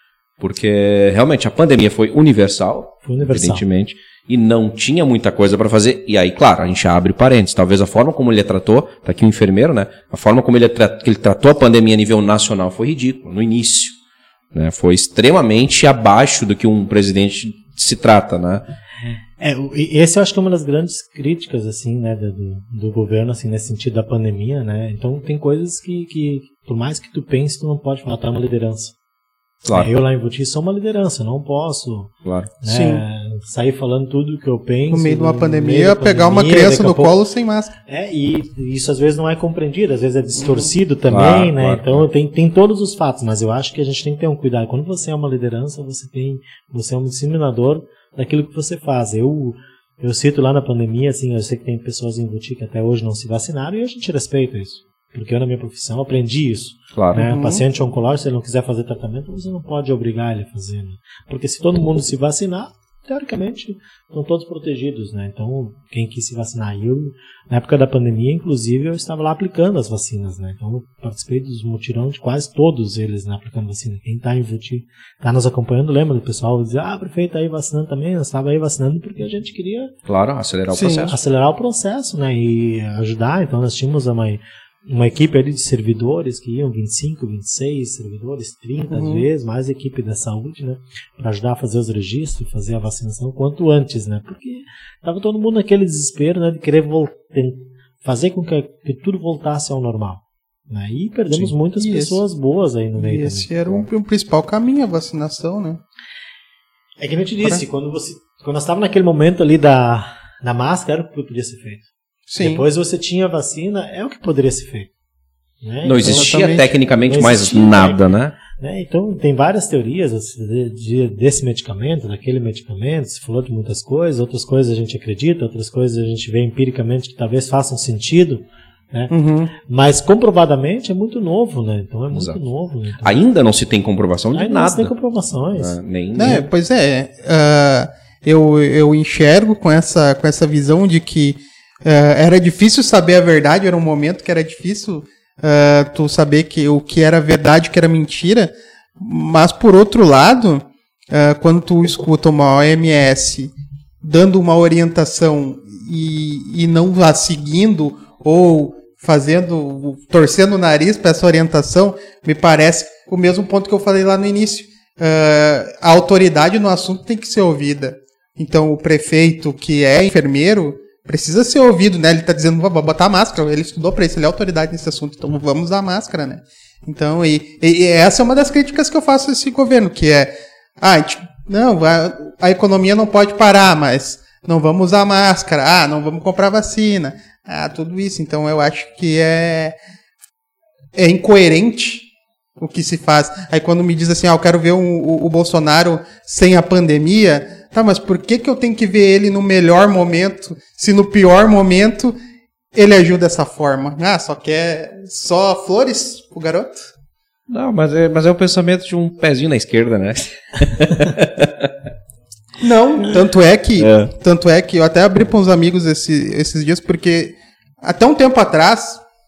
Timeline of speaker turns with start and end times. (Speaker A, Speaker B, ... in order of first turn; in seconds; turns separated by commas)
Speaker A: 0.4-14.0, Speaker B: 3.0-3.6, Speaker A: 14.5-18.6, Speaker B: 19.4-28.9, Speaker A: 29.6-30.0, Speaker B: 29.7-37.1, Speaker A: 32.2-32.5, Speaker C: 32.7-33.0, Speaker C: 34.9-37.8, Speaker B: 37.9-79.9, Speaker C: 40.4-40.7, Speaker A: 41.1-42.0, Speaker A: 56.9-57.2, Speaker C: 57.2-57.6, Speaker A: 80.1-81.2, Speaker C: 80.7-81.1, Speaker B: 81.1-103.5, Speaker C: 88.9-89.2, Speaker C: 101.8-102.2, Speaker C: 103.0-105.8, Speaker B: 107.0-111.9, Speaker C: 112.3-112.6, Speaker B: 112.4-114.9, Speaker B: 115.6-116.5, Speaker A: 115.8-118.3, Speaker C: 116.0-116.7, Speaker B: 117.0-129.1, Speaker C: 129.1-129.5, Speaker B: 129.7-133.2, Speaker A: 132.1-132.4, Speaker A: 133.0-134.9, Speaker B: 134.3-136.5, Speaker A: 135.6-136.4, Speaker C: 136.2-189.8, Speaker C: 190.9-192.1, Speaker C: 192.6-202.2, Speaker C: 202.7-206.9, Speaker A: 207.5-211.7, Speaker C: 212.6-219.0, Speaker A: 213.8-214.1